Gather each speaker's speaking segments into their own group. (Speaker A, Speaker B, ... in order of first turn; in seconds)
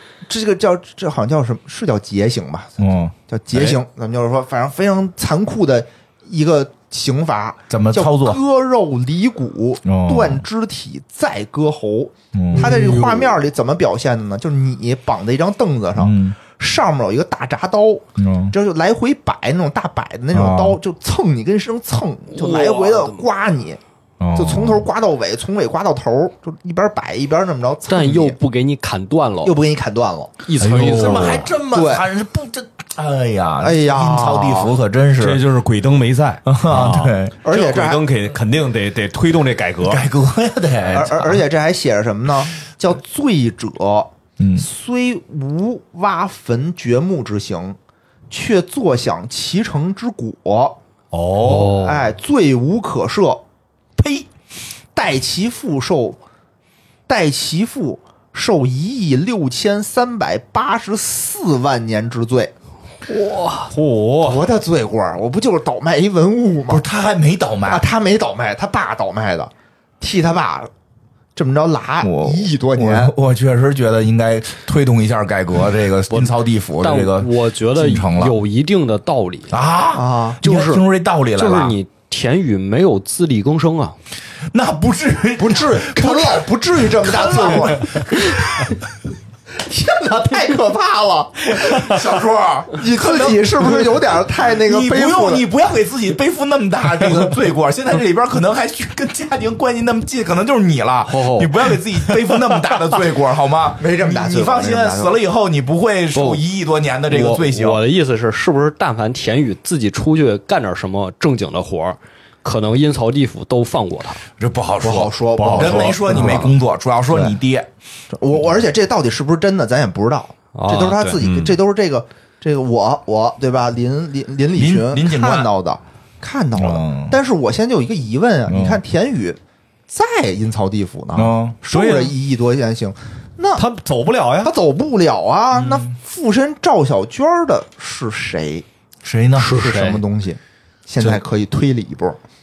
Speaker A: 0.3-23.8, 24.3-28.4, 29.4-30.3, 31.7-32.0, 33.6-34.7, 37.4-38.0, 40.9-47.8, 48.3-50.8, 51.4-53.4, 54.9-56.2, 57.1-62.5, 64.2-66.8, 67.7-70.7, 71.3-73.1, 79.9-80.4, 85.4-88.0, 89.6-92.0, 92.7-95.4, 103.8-105.2, 114.8-116.5, 118.1-133.6, 134.4-138.6, 139.5-142.2
Speaker B: 2.8-3.8, 7.7-8.4, 9.8-10.4, 12.3-12.8, 16.0-16.4, 18.1-18.5, 20.3-20.8, 24.2-24.9, 30.6-35.4, 36.4-37.3, 39.8-41.4, 44.4-44.6, 54.0-54.3, 66.7-67.8, 72.0-78.3, 79.5-81.8, 84.5-88.8, 91.5-107.8, 114.4-117.7, 124.5-125.5, 126.6-127.2, 128.5-128.8, 131.1-131.6, 135.6-135.9, 139.0-139.5
Speaker C: 12.5-13.4, 22.3-23.2, 27.9-29.6, 30.4-31.5, 51.4-51.9, 63.1-63.7, 76.1-79.5, 80.4-84.0, 101.1-101.5, 106.1-106.4, 107.1-114.2, 120.5-121.2, 139.3-140.0
Speaker D: 30.6-31.5, 35.2-40.0, 51.1-51.9, 63.7-64.4, 115.4-116.0, 121.1-121.5, 131.7-132.1, 133.6-134.5